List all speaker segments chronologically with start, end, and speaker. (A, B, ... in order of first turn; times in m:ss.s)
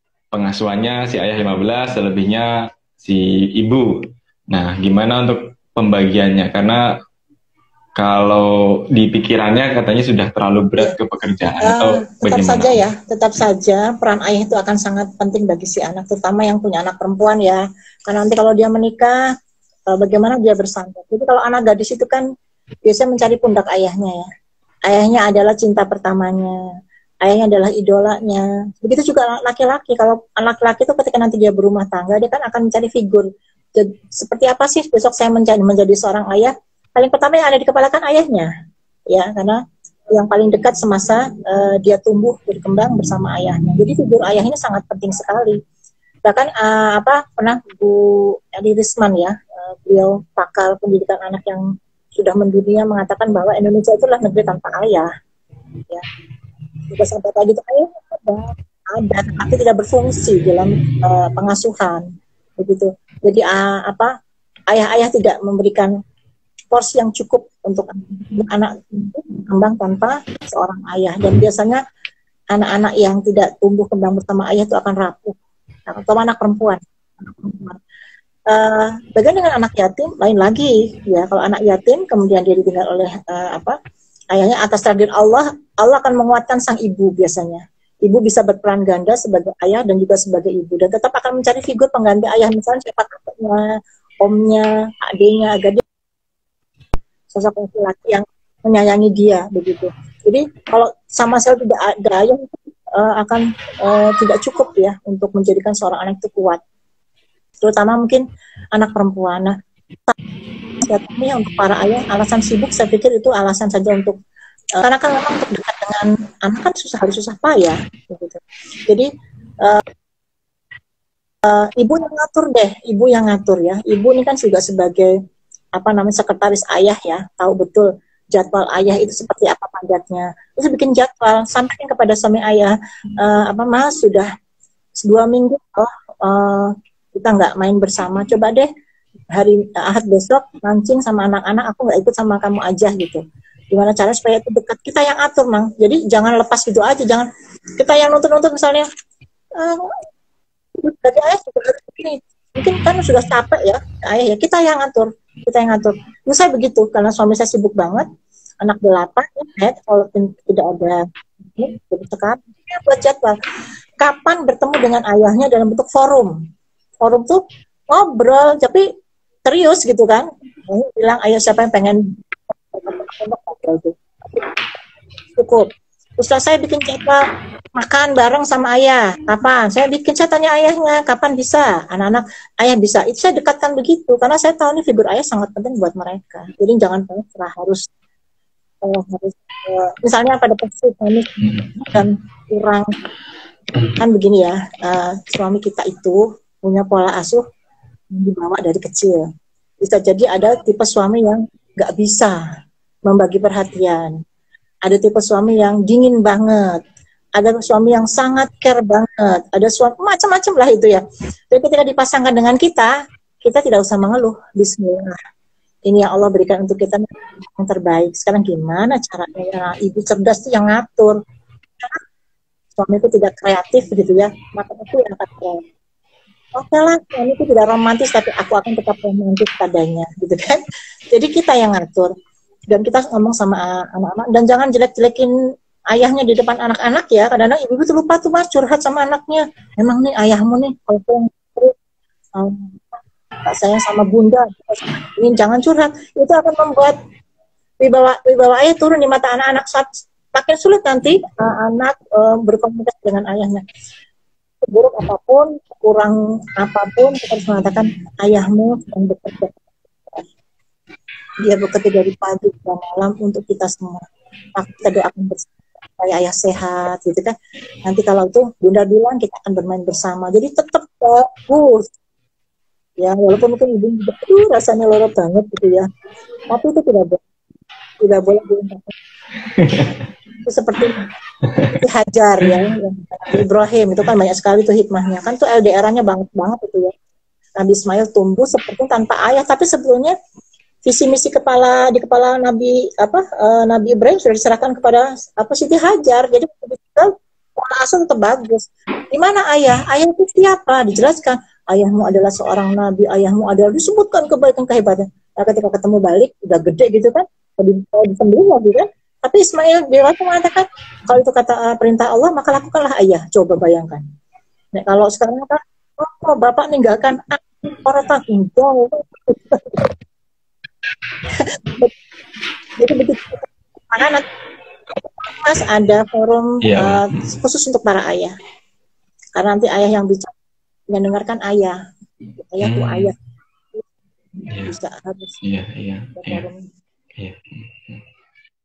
0:00.3-0:06.8 A
0:08.0-0:12.8 A
0:11.6-0:19.2 B
0:19.9-0:22.2 B
0:22.8-0:24.2 B
0:24.9-0:26.6 B
0:27.2-0:38.5 B
0:39.1-0:45.6 B
0:46.2-0:51.6 B
0:52.2-0:55.1 B
0:56.9-1:02.0 B
1:02.6-1:04.1 B
1:04.7-1:05.9 B
1:06.7-1:11.8 B
1:12.5-1:15.4 B
1:15.9-1:17.8 B
1:18.5-1:23.8 B
1:24.3-1:35.8 B
1:37.3-1:46.6 B
1:47.6-1:49.6 B
1:50.8-1:54.2 B
1:54.8-1:59.1 B
2:01.4-2:05.2 B
2:05.8-2:14.3 B
2:15.0-2:18.7 B
2:19.3-2:27.3 B
2:27.8-2:28.9 B
2:29.6-2:30.0 B
2:30.8-2:38.1 B
2:38.6-2:43.4 B
2:44.0-2:46.4 B
2:47.0-2:48.8 B
2:49.4-2:54.5 B
2:55.4-2:55.7 B
2:56.2-3:07.8 B
3:08.8-3:12.9 B
3:14.0-3:17.4 B
3:18.1-3:19.2 B
3:19.8-3:22.4 B
3:23.1-3:24.1 B
3:24.8-3:26.8 B
3:27.4-3:32.9 B
3:33.4-3:35.2 B
3:35.9-3:41.2 B
3:42.8-3:45.6 B
3:46.6-3:50.6 B
3:51.1-3:52.1 B
3:52.7-3:55.3 B
3:55.9-4:01.8 B
4:02.4-4:07.0 B
4:07.8-4:13.6 B
4:14.6-4:20.2 B
4:21.4-4:24.0 B
4:24.6-4:27.3 B
4:27.8-4:31.9 B
4:33.0-4:35.9 B
4:36.5-4:37.2 B
4:38.0-4:38.9 B
4:39.6-4:40.0 A
4:40.4-4:41.0 B
4:41.4-4:41.7 A
4:41.7-4:46.9 B
4:47.6-4:50.2 B
4:50.8-5:14.0 B
5:14.7-5:19.9 B
5:21.4-5:21.9 B
5:22.8-5:24.2 B
5:25.0-5:28.3 B
5:26.6-5:27.2 A
5:29.4-5:30.3 B
5:30.9-5:31.8 B
5:32.4-5:33.1 B
5:32.6-5:33.1 A
5:34.6-5:35.4 B
5:35.4-5:36.5 A
5:36.2-5:36.7 B
5:37.2-5:38.0 A